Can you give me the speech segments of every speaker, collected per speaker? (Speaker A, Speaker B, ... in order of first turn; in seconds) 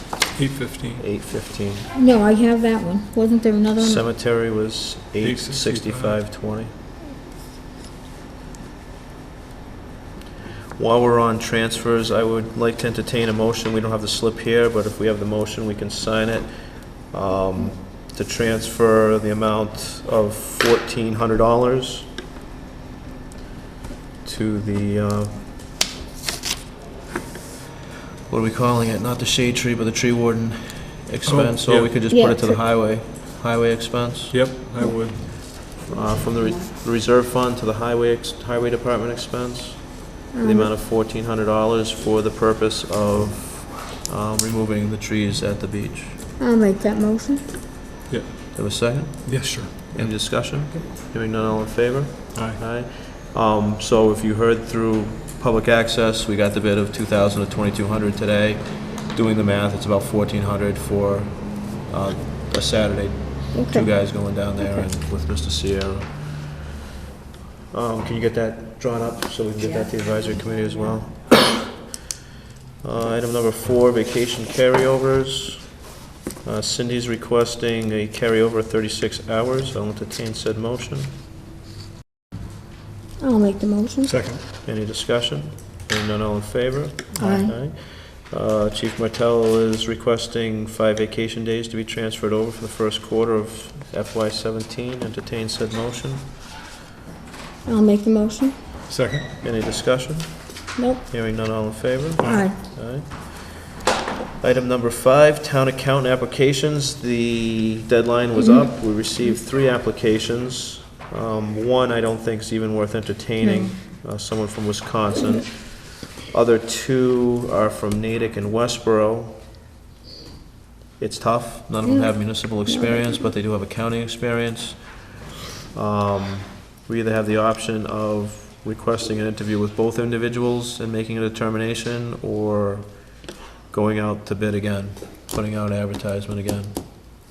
Speaker A: 0.3-1.0, 5.2-6.2, 31.3-31.9, 34.3-35.3, 48.1-48.5, 49.2-50.6, 52.3-52.6, 84.0-84.4, 98.9-99.3, 102.2-102.5
Speaker B: 1.0-1.9, 3.8-6.7, 10.8-22.1, 24.2-25.4, 28.3-34.4, 35.8-46.2, 48.5-66.5, 67.7-71.8, 72.8-75.8, 76.4-81.1, 84.6-96.2, 99.4-103.7, 104.4-119.4, 121.0-125.0, 125.7-133.2, 133.7-136.8
Speaker C: 1.9-4.0, 32.1-32.6, 40.3-40.7, 46.4-47.4, 63.5-64.8, 83.2-84.1, 87.2-87.6, 97.7-98.5, 100.8-101.0, 102.2-102.6, 113.4-113.8, 121.8-123.2